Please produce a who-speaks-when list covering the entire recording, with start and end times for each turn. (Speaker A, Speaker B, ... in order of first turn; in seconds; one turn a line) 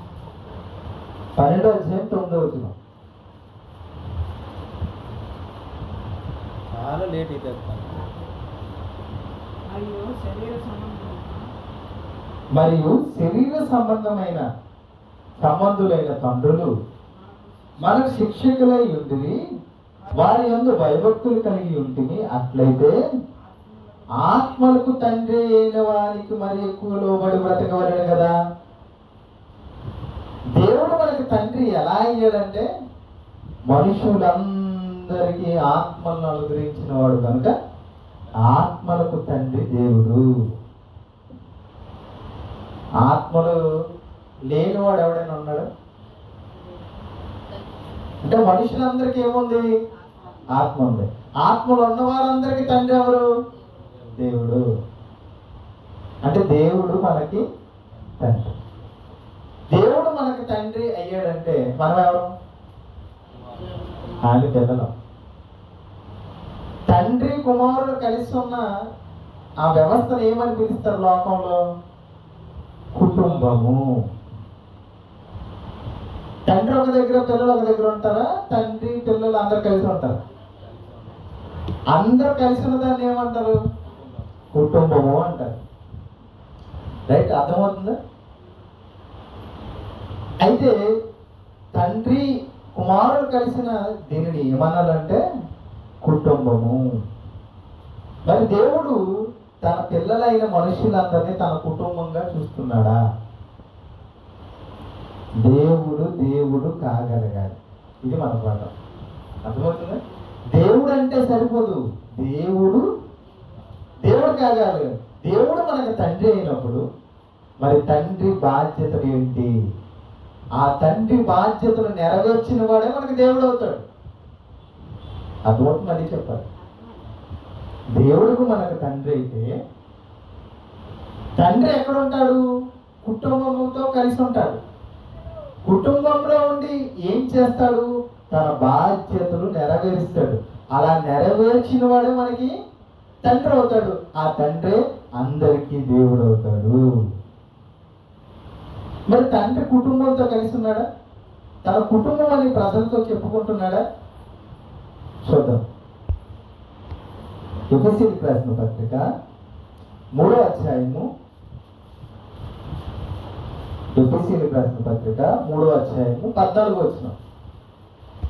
Speaker A: 1.4-2.7
Speaker B: 6.7-8.0
Speaker C: 9.7-11.4
Speaker A: 12.5-14.5
Speaker A: 15.4-16.7
Speaker C: 17.1-18.4
Speaker A: 17.8-19.4
Speaker C: 20.0-20.4
Speaker A: 20.1-22.9
Speaker C: 23.4-24.8
Speaker A: 24.1-28.3
Speaker A: 30.5-32.7
Speaker A: 33.7-37.5
Speaker A: 38.4-40.2
Speaker A: 43.0-43.6
Speaker A: 44.5-45.7
Speaker A: 48.2-49.6
Speaker A: 50.5-53.2
Speaker B: 53.7-54.2
Speaker A: 54.1-54.6
Speaker A: 56.2-57.4
Speaker A: 58.2-58.5
Speaker A: 59.7-62.3
Speaker B: 63.3-64.2
Speaker A: 64.2-64.9
Speaker A: 66.9-68.7
Speaker A: 69.6-71.6
Speaker A: 72.9-74.0
Speaker B: 73.2-73.6
Speaker A: 76.5-80.2
Speaker B: 80.5-81.2
Speaker A: 81.9-83.6
Speaker B: 83.9-84.1
Speaker A: 84.5-85.6
Speaker A: 87.1-88.0
Speaker A: 90.4-90.8
Speaker A: 91.7-95.2
Speaker A: 96.0-96.9
Speaker A: 98.2-99.0
Speaker A: 99.6-103.0
Speaker A: 105.4-108.7
Speaker A: 109.4-110.0
Speaker A: 110.5-112.8
Speaker A: 114.0-116.8
Speaker A: 117.6-119.5
Speaker A: 120.6-123.8
Speaker A: 125.5-126.5
Speaker A: 128.0-129.5
Speaker A: 131.4-132.4
Speaker A: 133.0-134.6
Speaker A: 135.6-142.5
Speaker A: 143.2-146.8
Speaker A: 149.1-150.8
Speaker A: 151.6-153.8
Speaker A: 155.2-155.6
Speaker A: 157.7-159.1
Speaker A: 160.2-161.1
Speaker A: 164.0-167.1